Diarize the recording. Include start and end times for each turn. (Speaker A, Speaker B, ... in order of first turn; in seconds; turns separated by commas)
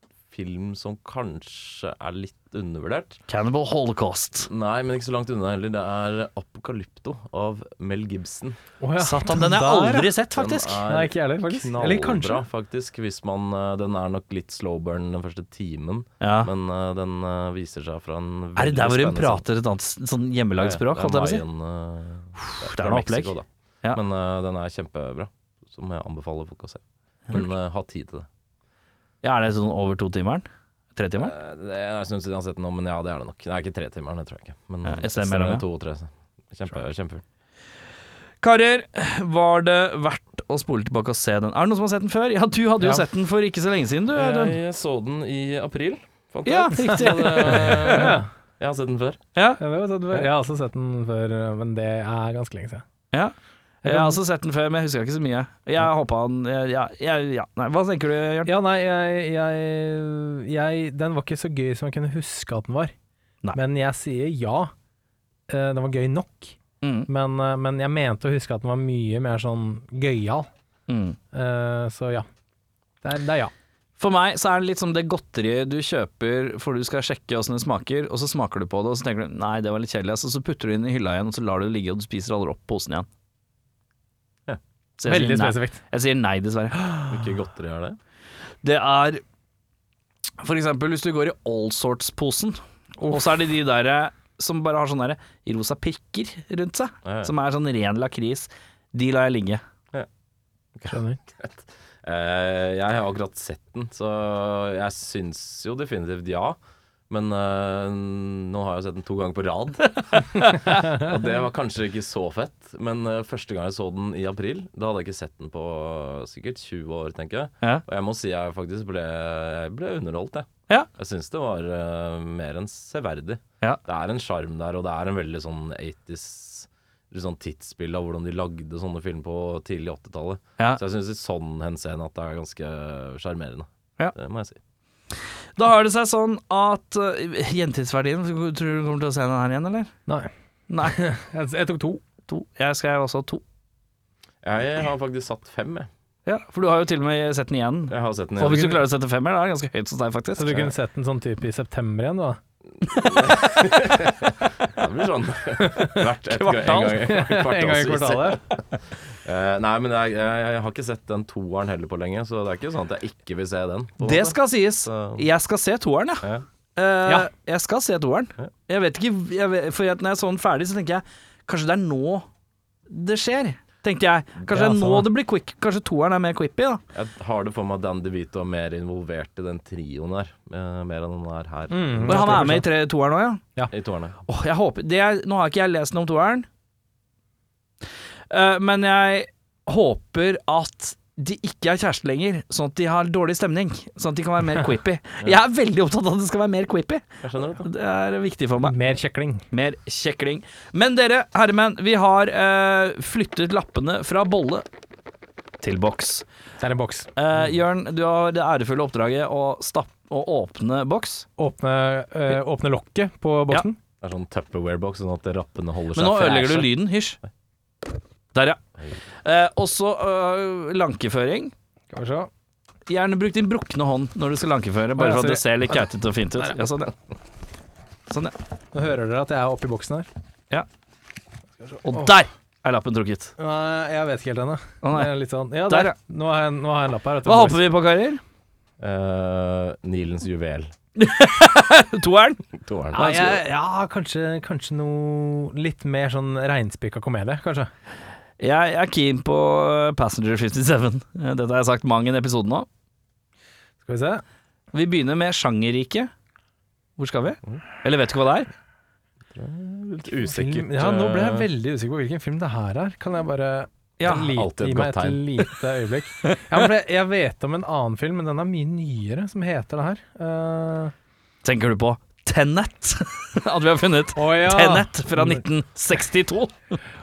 Speaker A: 0.3-3.2, Speaker B: 3.3-4.5, Speaker A: 4.5-8.6, Speaker C: 8.8-10.1, Speaker B: 9.0-10.8, Speaker A: 10.3-19.4, Speaker C: 10.9-12.4, Speaker B: 16.2-16.5, Speaker B: 18.6-21.4, Speaker A: 20.6-28.3, Speaker B: 22.4-24.0, Speaker B: 29.2-31.3, Speaker A: 31.2-37.2, Speaker B: 34.9-35.6, Speaker B: 38.4-44.6, Speaker A: 44.1-49.2, Speaker B: 46.5-48.2, Speaker C: 46.8-48.3, Speaker B: 49.4-49.6, Speaker C: 49.6-52.9, Speaker B: 53.1-58.5, Speaker C: 53.9-54.2, Speaker C: 58.5-62.9, Speaker C: 63.5-64.7, Speaker C: 65.5-66.6, Speaker B: 66.8-67.1, Speaker C: 67.1-70.5, Speaker B: 70.9-71.2, Speaker C: 71.3-72.3, Speaker C: 73.0-73.5, Speaker B: 74.0-83.1, Speaker B: 85.0-86.8, Speaker C: 85.0-85.8, Speaker C: 86.8-87.2, Speaker A: 87.1-88.0, Speaker B: 88.6-89.2, Speaker B: 90.4-99.6, Speaker C: 93.0-93.3, Speaker A: 97.0-97.3, Speaker A: 100.8-106.6, Speaker C: 100.9-101.2, Speaker A: 107.1-134.6, Speaker B: 135.6-139.9, Speaker B: 140.7-141.0, Speaker C: 140.8-142.0, Speaker B: 142.3-143.4, Speaker A: 144.4-145.9, Speaker B: 146.3-150.7, Speaker A: 147.9-148.8, Speaker C: 150.4-152.4, Speaker A: 152.9-165.3, Speaker C: 155.6-156.1, Speaker B: 156.3-157.0, Speaker C: 156.9-158.4, Speaker B: 164.0-172.3, Speaker B: 172.9-176.8, Speaker C: 174.5-175.1, Speaker A: 176.9-182.5, Speaker C: 181.7-182.7, Speaker B: 182.1-183.4, Speaker A: 183.7-184.2, Speaker B: 184.3-186.5, Speaker B: 188.3-198.8, Speaker A: 197.2-197.7, Speaker C: 198.6-199.4, Speaker B: 199.5-204.7, Speaker B: 205.6-206.2, Speaker C: 206.6-207.1, Speaker B: 207.2-211.3, Speaker C: 211.4-213.8, Speaker A: 214.0-216.7, Speaker B: 215.9-217.2, Speaker B: 218.3-218.6, Speaker B: 219.2-221.5, Speaker C: 221.9-222.3, Speaker B: 222.9-226.9, Speaker C: 225.0-225.8, Speaker B: 228.1-228.3, Speaker C: 228.7-230.1, Speaker C: 231.7-232.1, Speaker B: 231.8-233.3, Speaker C: 233.4-237.6, Speaker B: 234.8-235.1, Speaker B: 235.7-235.9, Speaker B: 237.3-238.2, Speaker A: 238.8-240.7, Speaker B: 241.0-242.4, Speaker A: 242.5-243.3, Speaker C: 242.9-247.7, Speaker B: 243.0-243.3, Speaker B: 248.4-252.7, Speaker C: 253.8-254.2, Speaker B: 254.7-256.1, Speaker B: 257.0-258.5, Speaker A: 259.4-261.5, Speaker C: 260.2-270.9, Speaker B: 264.0-264.3, Speaker A: 264.1-265.3, Speaker B: 271.4-276.8, Speaker C: 274.1-275.4